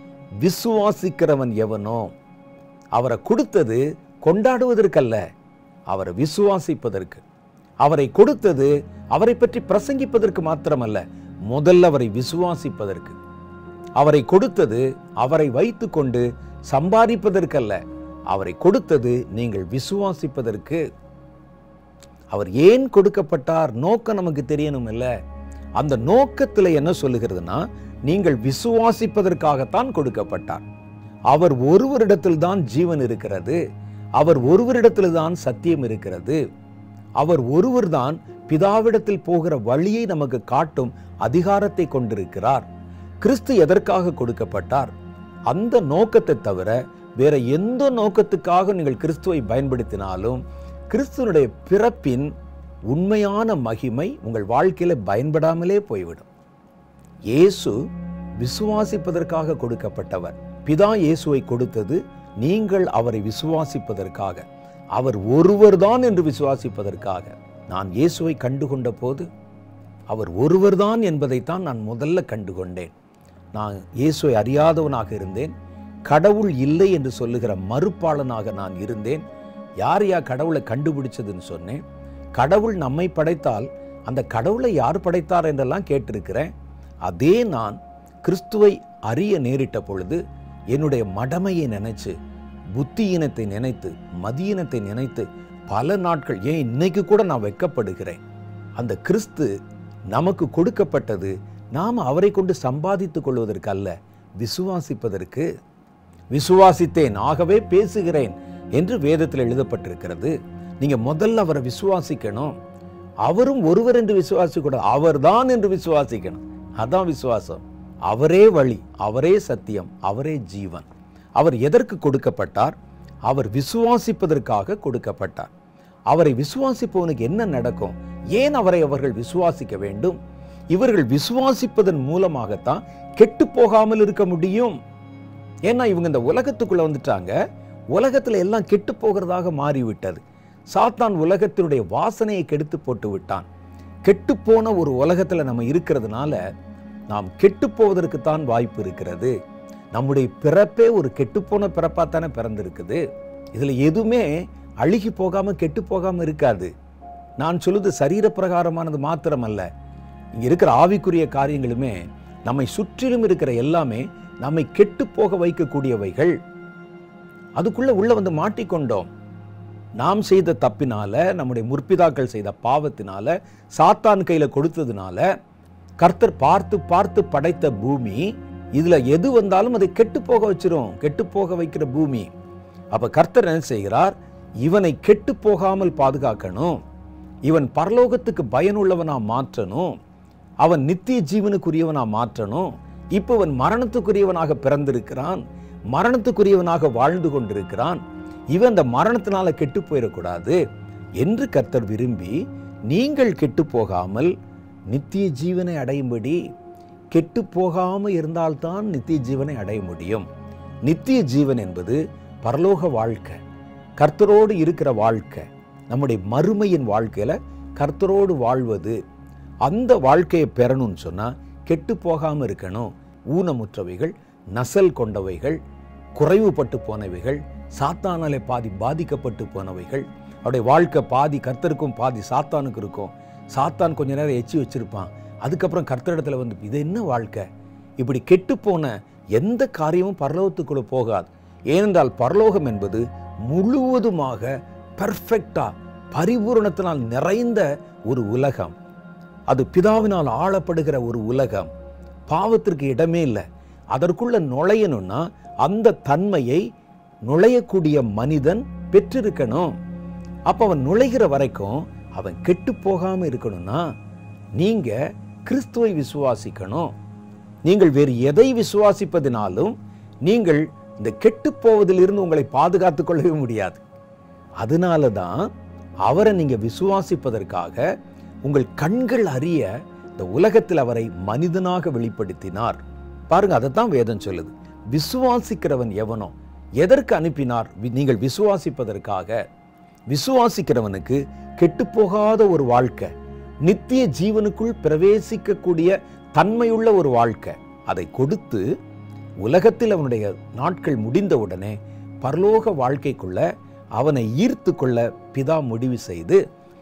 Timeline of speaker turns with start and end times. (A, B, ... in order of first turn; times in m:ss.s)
0:00.4-0:02.1 A
0:02.9-0:05.2 A
0:05.9-0:07.2 A
0:07.8-0:13.2 A
0:14.0-0:20.8 A
0:22.3-0:25.1 A
0:25.8-0:30.6 A
0:31.3-0:33.6 A
0:34.2-0:36.4 A
0:37.2-0:42.6 A
0:43.2-0:44.9 A
0:45.5-0:52.3 A
0:52.9-0:56.3 A
0:57.3-0:57.8 A
0:58.4-1:04.4 A
1:05.0-1:09.3 A
1:10.1-1:12.9 A
1:13.5-1:15.5 A
1:16.0-1:19.2 A
1:19.8-1:21.8 A
1:22.4-1:26.5 A
1:27.0-1:30.2 A
1:30.7-1:32.1 A
1:32.7-1:38.2 A
1:38.8-1:39.5 A
1:40.1-1:45.5 A
1:46.3-1:52.5 A
1:53.2-2:02.7 A
2:03.2-2:05.5 A
2:06.1-2:10.2 A
2:10.7-2:14.8 A
2:15.6-2:17.3 A
2:17.9-2:20.2 A
2:20.7-2:23.4 A
2:24.0-2:26.4 A
2:27.1-2:29.3 A
2:29.9-2:33.0 A
2:33.5-2:36.7 A
2:37.4-2:39.7 A
2:40.4-2:46.4 A
2:47.6-2:49.1 A
2:50.0-2:55.2 A
2:56.0-3:02.3 A
3:02.9-3:06.8 A
3:07.4-3:09.9 A
3:10.6-3:15.4 A
3:15.9-3:18.0 A
3:18.5-3:20.6 A
3:21.2-3:24.3 A
3:24.9-3:26.4 A
3:27.1-3:30.3 A
3:30.8-3:33.4 A
3:34.0-3:39.0 A
3:39.6-3:45.6 A
3:46.2-3:57.4 A
3:58.0-4:08.7 A
4:09.5-4:11.7 A
4:12.3-4:16.6 A
4:17.2-4:19.7 A
4:20.5-4:23.8 A
4:24.6-4:26.9 A
4:27.6-4:29.7 A
4:30.2-4:33.8 A
4:34.6-4:35.5 A
4:36.0-4:37.8 A
4:38.4-4:49.4 A
4:50.1-4:53.1 A
4:53.6-4:58.6 A
4:59.4-5:03.4 A
5:04.0-5:06.4 A